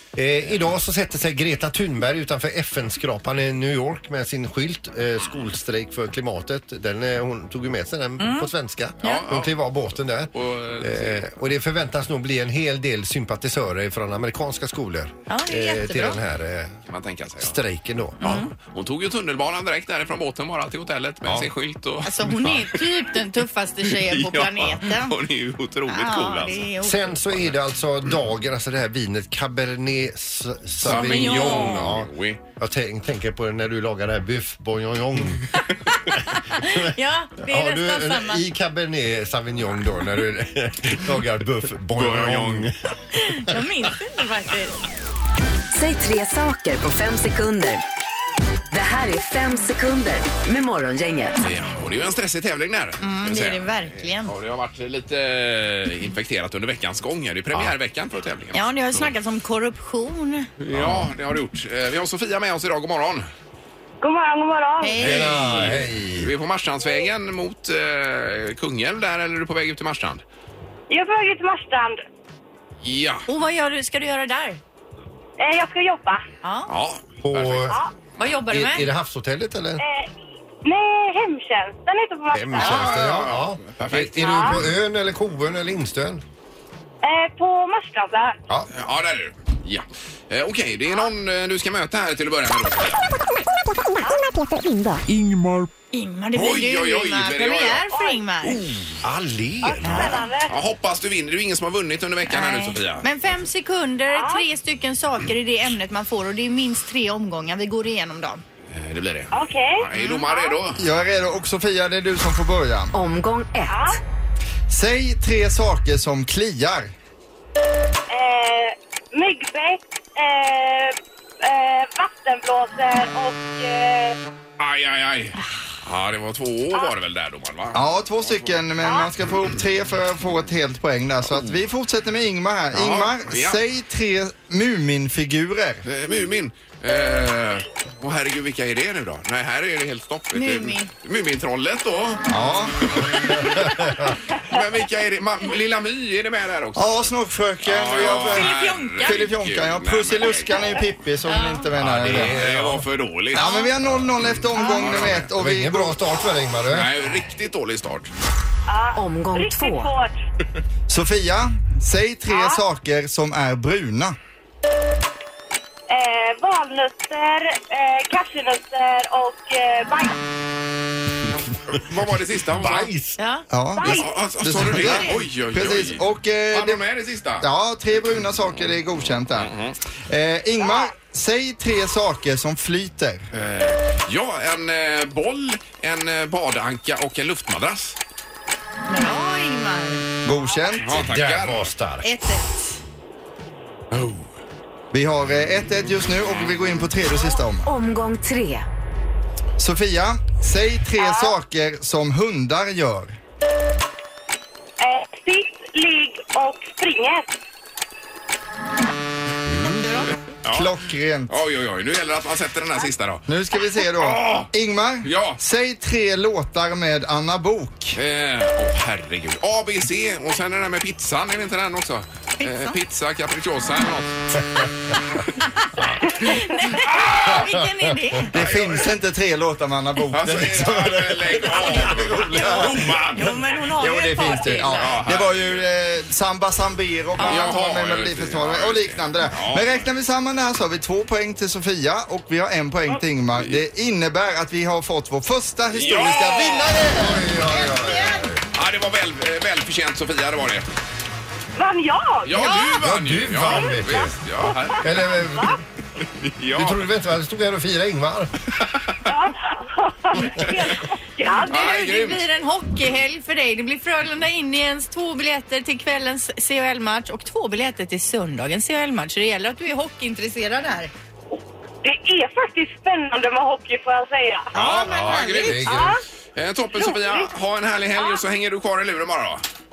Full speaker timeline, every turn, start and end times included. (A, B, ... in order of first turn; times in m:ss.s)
0:00.2-0:16.8 A
0:08.2-0:08.5 B
0:09.0-0:09.8 C
0:10.3-0:11.2 C
0:15.3-0:16.2 B
0:16.9-0:17.6 C
0:17.4-0:18.2 A
0:18.2-0:18.5 B
0:18.2-0:22.8 C
0:22.0-0:25.1 B
0:23.9-0:26.6 C
0:25.9-0:27.1 B
0:26.8-0:35.4 A
0:30.8-0:32.4 C
0:30.8-0:31.8 B
0:36.0-0:38.4 B
0:36.6-0:36.9 A
0:37.4-0:42.8 A
0:42.0-0:42.7 C
0:43.1-0:44.8 B
0:45.7-0:47.8 D
0:48.7-0:51.4 D
0:51.4-0:59.1 C
0:53.0-0:54.3 B
0:58.5-1:00.5 B
1:00.6-1:03.3 C
1:00.7-1:01.1 A
1:04.0-1:05.0 E
1:04.8-1:05.6 B
1:05.0-1:06.3 A
1:05.2-1:10.2 C
1:10.9-1:12.0 E
1:12.8-1:13.2 C
1:13.3-1:14.6 B
1:15.4-1:16.2 E
1:16.4-1:16.7 B
1:16.7-1:17.7 C
1:17.2-1:17.8 A
1:18.2-1:18.9 B
1:18.5-1:19.8 A
1:19.8-1:20.1 E
1:20.6-1:23.0 E
1:22.3-1:26.2 A
1:22.6-1:24.6 C
1:24.2-1:24.6 E
1:27.0-1:28.4 E
1:28.7-1:33.0 C
1:34.0-1:34.4 E
1:35.9-1:38.6 B
1:36.3-1:37.8 C
1:37.9-1:38.2 E
1:38.4-1:39.0 C
1:39.0-1:40.2 A
1:39.6-1:40.5 E
1:40.5-1:43.0 C
1:42.3-1:48.4 B
1:44.1-1:44.4 E
1:48.7-1:50.8 C
1:49.3-1:50.5 E
1:50.0-1:50.2 B
1:50.8-1:53.0 F
1:52.9-1:53.8 D
1:53.7-1:54.0 E
1:54.7-1:56.9 F
1:58.1-2:04.2 E
2:04.6-2:08.6 C
2:07.7-2:15.8 F
2:08.8-2:09.1 E
2:12.7-2:13.6 C
2:15.8-2:22.2 C
2:20.3-2:20.9 B
2:22.3-2:23.4 F
2:22.9-2:27.1 C
2:23.4-2:24.1 A
2:26.8-2:32.4 F
2:27.6-2:30.8 C
2:28.2-2:29.3 B
2:31.3-2:31.6 B
2:31.8-2:35.3 C
2:32.0-2:32.9 A
2:33.3-2:35.9 F
2:33.3-2:33.7 B
2:34.6-2:34.9 B
2:35.0-2:36.9 A
2:36.7-2:38.1 C
2:38.7-2:40.1 E
2:39.0-2:39.9 D
2:40.9-2:44.2 F
2:42.3-2:42.6 E
2:45.9-2:50.1 E
2:51.7-2:52.9 C
2:52.5-2:53.2 A
2:53.2-2:53.4 B
2:53.5-2:56.8 F
2:53.8-2:54.2 E
2:53.8-2:57.4 C
2:54.8-2:55.2 B
2:57.4-2:59.5 F
2:59.4-2:59.8 C
3:00.1-3:03.3 F
3:03.3-3:08.0 C
3:08.9-3:10.0 B
3:10.2-3:11.0 F
3:10.8-3:11.7 C
3:10.9-3:12.1 A
3:12.0-3:12.8 B
3:13.9-3:14.3 C
3:14.9-3:17.7 F
3:16.3-3:16.9 C
3:17.6-3:18.6 D
3:19.6-3:23.2 F
3:21.0-3:21.4 E
3:24.8-3:27.3 E
3:29.5-3:29.8 A
3:29.8-3:30.1 B
3:30.4-3:30.7 C
3:30.5-3:31.3 F
3:31.3-3:34.5 C
3:33.3-3:38.0 F
3:35.0-3:35.4 C
3:37.9-3:44.6 C
3:42.4-3:42.8 B
3:46.1-3:48.3 B
3:46.9-3:47.5 C
3:48.3-3:49.0 C
3:48.3-3:52.0 F
3:50.1-3:53.4 C
3:50.3-3:52.6 A
3:52.4-3:55.0 B
3:53.8-4:07.2 F
3:53.9-3:54.6 A
3:54.6-3:55.7 C
3:57.2-3:57.5 B
3:57.2-3:59.8 C
4:03.3-4:03.6 C
4:05.8-4:06.8 C
4:06.8-4:08.4 A
4:07.8-4:08.3 B
4:08.5-4:10.7 C
4:11.6-4:12.7 E
4:12.2-4:15.1 C
4:12.4-4:12.7 B
4:12.8-4:14.1 A
4:14.4-4:15.6 E
4:14.8-4:15.6 A
4:16.2-4:16.8 C
4:16.5-4:18.3 A
4:19.0-4:21.5 E
4:21.3-4:30.9 B
4:21.4-4:22.2 C
4:31.8-4:36.0 E
4:34.6-4:39.4 C
4:34.6-4:35.9 A
4:34.6-4:35.4 B
4:36.7-4:37.3 E